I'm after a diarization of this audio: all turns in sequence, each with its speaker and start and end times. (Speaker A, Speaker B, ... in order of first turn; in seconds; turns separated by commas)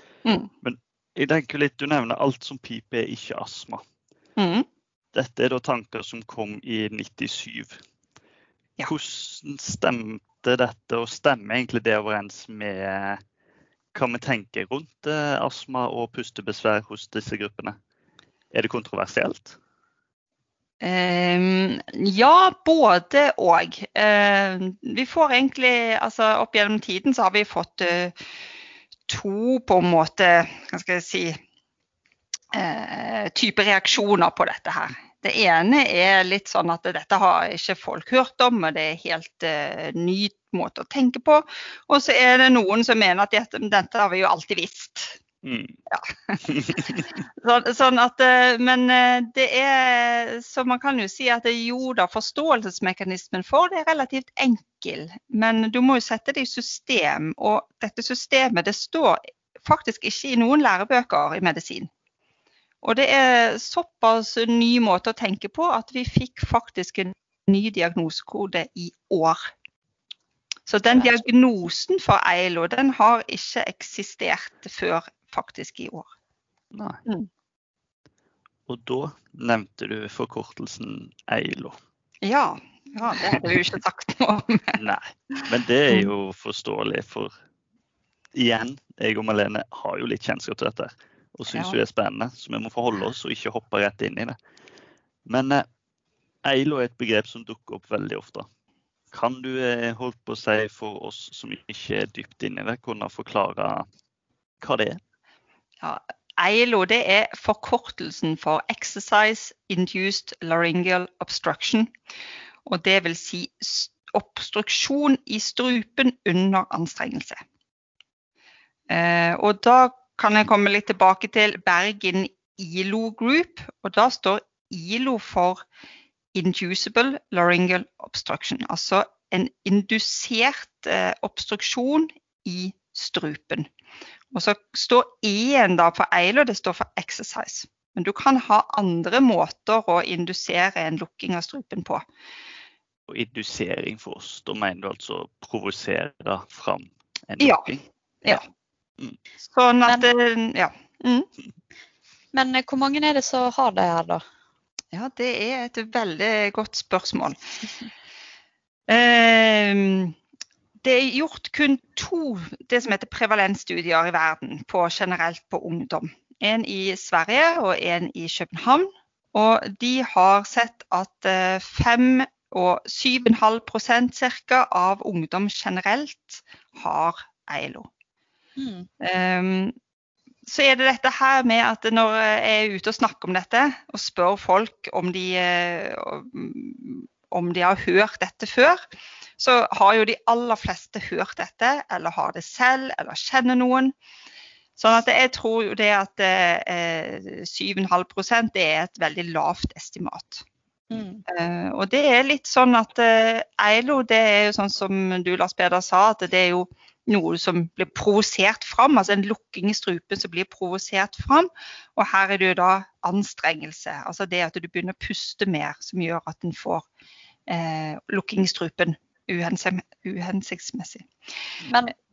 Speaker A: 0.2-0.5, Speaker B: 0.6-3.8, Speaker A: 4.4-4.7, Speaker B: 5.1-7.8, Speaker B: 8.9-13.2, Speaker B: 13.9-17.8, Speaker B: 18.5-19.6, Speaker A: 20.8-28.1, Speaker A: 29.1-31.4, Speaker A: 32.5-45.2, Speaker B: 45.4-45.8, Speaker A: 45.9-61.9, Speaker B: 46.5-47.1, Speaker A: 62.8-69.5, Speaker A: 70.7-76.1, Speaker B: 76.7-77.0, Speaker B: 78.7-81.8, Speaker A: 82.2-84.8, Speaker B: 84.8-87.3, Speaker B: 88.3-94.4, Speaker A: 91.5-91.8, Speaker B: 95.3-95.7, Speaker B: 96.4-98.5, Speaker B: 99.1-103.9, Speaker B: 104.6-105.0, Speaker A: 105.8-111.9, Speaker A: 112.7-117.4, Speaker A: 118.9-125.7, Speaker A: 126.3-133.7, Speaker A: 134.3-142.0, Speaker B: 143.1-148.4, Speaker A: 147.4-147.7, Speaker A: 149.4-151.3, Speaker C: 152.3-154.2, Speaker A: 154.9-157.4, Speaker A: 158.9-160.2, Speaker A: 160.8-177.9, Speaker C: 178.6-178.9, Speaker A: 179.0-179.8, Speaker A: 180.5-188.8, Speaker A: 189.4-193.9, Speaker A: 194.8-200.4, Speaker C: 200.9-201.2, Speaker A: 201.3-216.9, Speaker A: 217.5-221.1, Speaker C: 221.7-221.9